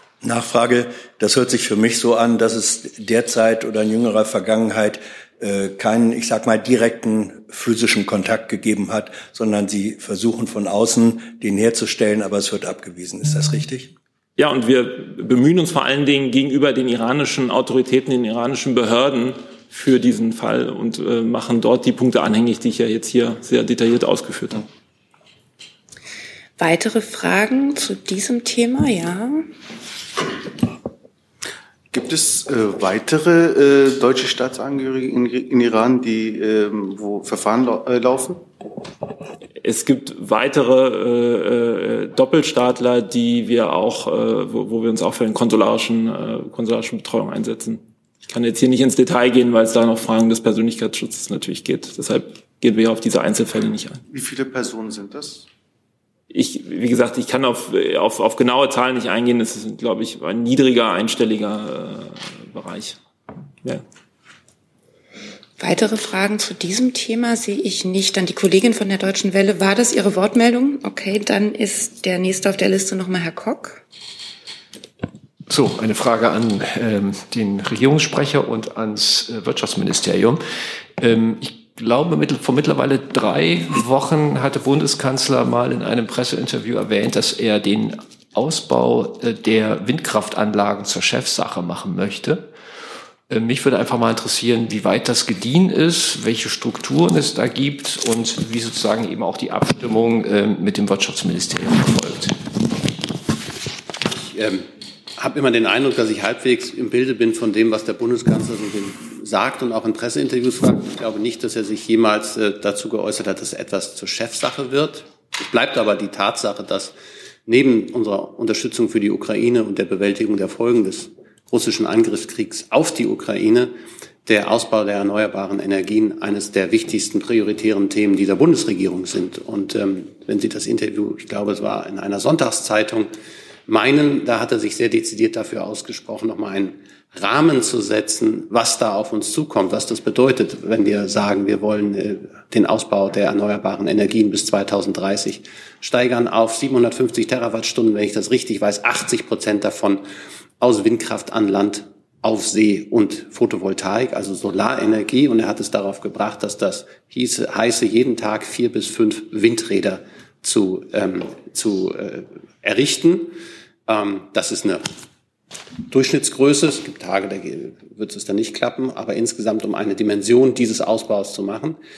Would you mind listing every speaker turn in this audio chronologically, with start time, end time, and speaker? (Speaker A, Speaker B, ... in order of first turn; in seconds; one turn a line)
Speaker A: 0.2-13.9
Speaker B: 14.4-24.6
Speaker C: 26.6-29.5
Speaker D: 31.9-38.4
Speaker B: 39.6-54.0
Speaker D: 54.1-55.5
Speaker B: 56.3-63.0
Speaker C: 65.6-73.8
Speaker E: 75.5-80.4
Speaker E: 81.0-92.5
Speaker E: 93.3-102.4
Speaker F: 104.1-116.9
Speaker F: 117.5-123.7
Speaker F: 124.2-133.1
Speaker F: 133.7-150.1
Speaker F: 150.6-164.9
Speaker F: 165.9-171.8